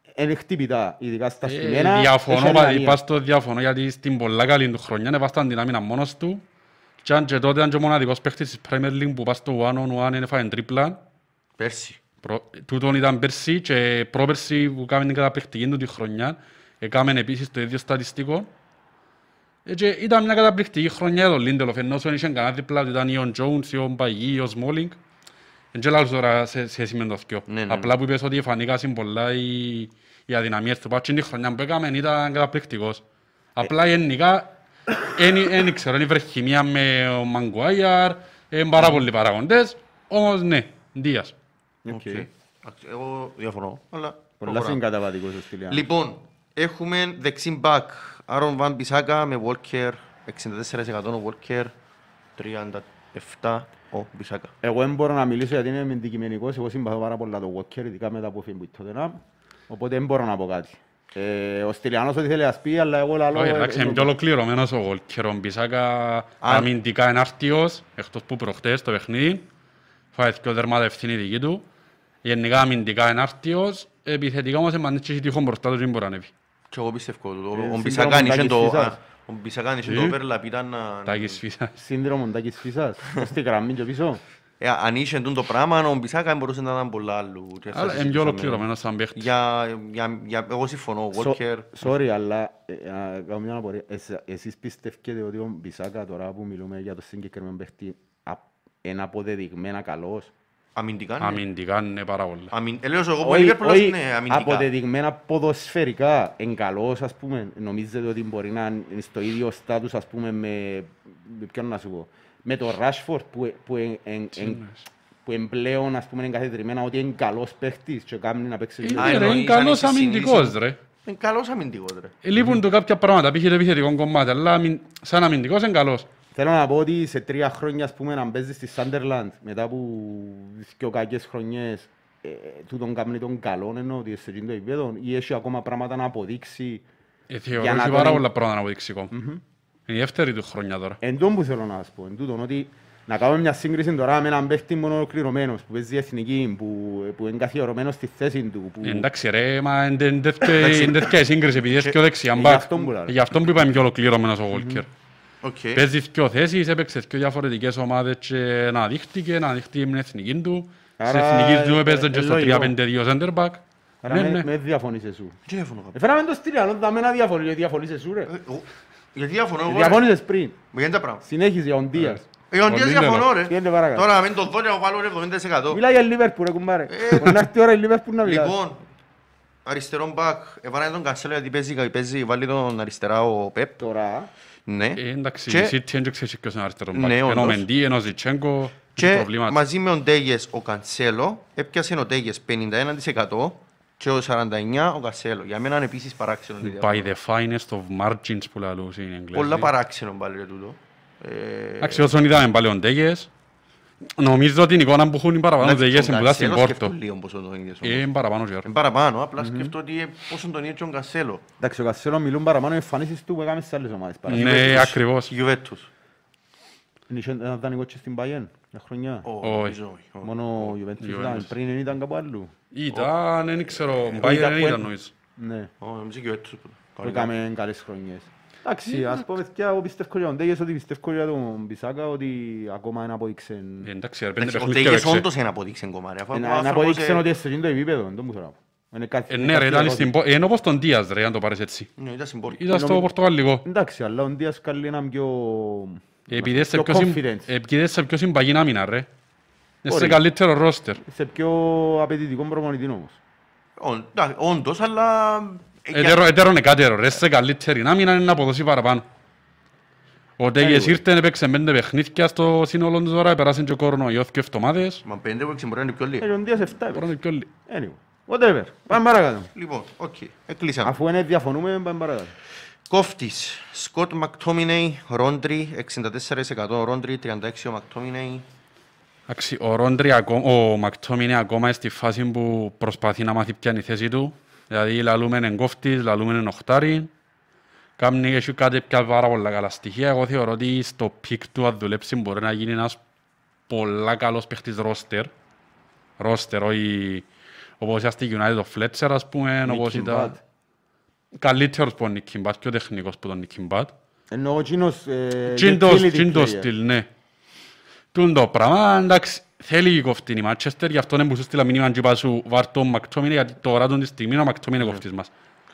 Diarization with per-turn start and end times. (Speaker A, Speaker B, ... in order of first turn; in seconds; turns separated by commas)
Speaker A: 0.1-3.0, Speaker B: 1.4-6.4, Speaker B: 7.0-11.0, Speaker C: 11.6-12.0, Speaker B: 12.2-18.5, Speaker B: 19.6-24.9, Speaker B: 25.7-33.0, Speaker C: 27.5-27.9, Speaker B: 33.5-41.3, Speaker A: 41.8-42.3, Speaker C: 41.9-44.8, Speaker A: 44.4-45.9, Speaker C: 45.7-51.7, Speaker C: 52.4-54.5, Speaker A: 54.6-64.1, Speaker B: 63.3-69.4, Speaker C: 66.4-66.7, Speaker B: 70.1-71.6, Speaker B: 72.2-76.3, Speaker C: 76.7-81.4, Speaker A: 77.5-79.0, Speaker B: 79.8-80.2, Speaker B: 81.0-81.7, Speaker A: 81.7-84.2, Speaker C: 84.6-91.7, Speaker B: 87.7-89.3, Speaker A: 91.1-100.3, Speaker C: 100.7-101.4, Speaker B: 101.2-102.5, Speaker C: 102.5-104.7, Speaker A: 103.2-114.6, Speaker B: 114.3-114.8, Speaker A: 115.2-119.4, Speaker B: 118.8-120.8, Speaker C: 119.0-122.2, Speaker B: 122.2-126.1, Speaker A: 122.3-122.6, Speaker A: 126.3-136.8, Speaker B: 137.3-139.1, Speaker A: 137.6-138.2, Speaker A: 139.1-139.4, Speaker B: 139.9-141.0, Speaker A: 141.0-149.1, Speaker B: 148.8-154.9, Speaker C: 150.6-151.0, Speaker A: 152.3-153.2, Speaker A: 154.5-154.8, Speaker C: 155.4-155.8, Speaker B: 155.7-164.4, Speaker A: 161.0-162.7, Speaker A: 164.0-165.4, Speaker C: 165.4-165.9, Speaker A: 165.9-168.3, Speaker C: 168.3-170.0, Speaker A: 169.7-170.6, Speaker C: 170.7-171.2, Speaker A: 171.2-172.2, Speaker C: 172.5-175.8, Speaker B: 172.7-173.3, Speaker A: 173.4-174.1, Speaker A: 175.7-178.5, Speaker C: 176.9-177.4, Speaker C: 178.2-178.8, Speaker C: 179.6-183.8, Speaker A: 183.8-184.3, Speaker C: 184.7-185.8, Speaker B: 184.9-189.6, Speaker C: 186.9-187.7, Speaker C: 188.9-197.1, Speaker B: 196.6-199.7, Speaker C: 199.3-202.1, Speaker B: 201.8-203.3, Speaker B: 204.2-206.9, Speaker C: 205.6-208.1, Speaker B: 207.8-208.7, Speaker C: 208.6-211.4, Speaker A: 209.4-209.7, Speaker A: 211.6-214.9, Speaker B: 214.3-215.3, Speaker C: 214.3-215.9, Speaker A: 217.1-219.3, Speaker C: 219.2-220.8, Speaker B: 219.4-219.8, Speaker A: 220.2-222.5, Speaker B: 221.0-221.5, Speaker B: 222.7-225.1, Speaker A: 224.2-224.8, Speaker A: 225.4-225.7, Speaker C: 225.8-227.3, Speaker A: 227.0-233.9, Speaker B: 233.8-235.3, Speaker C: 234.4-237.2, Speaker A: 236.3-240.1, Speaker B: 239.3-241.9, Speaker C: 242.0-242.7, Speaker B: 242.5-243.6, Speaker A: 242.7-243.1, Speaker A: 243.6-247.5, Speaker B: 246.3-249.1, Speaker B: 249.8-251.0, Speaker A: 249.9-250.2, Speaker A: 251.0-253.2, Speaker C: 253.8-256.2, Speaker B: 255.9-259.1, Speaker B: 260.4-265.0, Speaker A: 260.6-261.0, Speaker C: 265.0-266.3, Speaker A: 266.2-267.1, Speaker B: 266.9-267.5, Speaker A: 267.7-269.5, Speaker C: 269.5-270.9, Speaker A: 270.8-272.3, Speaker C: 272.9-278.4, Speaker B: 279.3-287.1, Speaker B: 288.0-293.0, Speaker B: 293.7-295.3, Speaker B: 296.2-297.2, Speaker B: 297.8-300.4, Speaker A: 299.6-300.4, Speaker B: 301.4-303.9, Speaker A: 304.3-306.7, Speaker B: 305.5-307.1, Speaker B: 308.1-315.3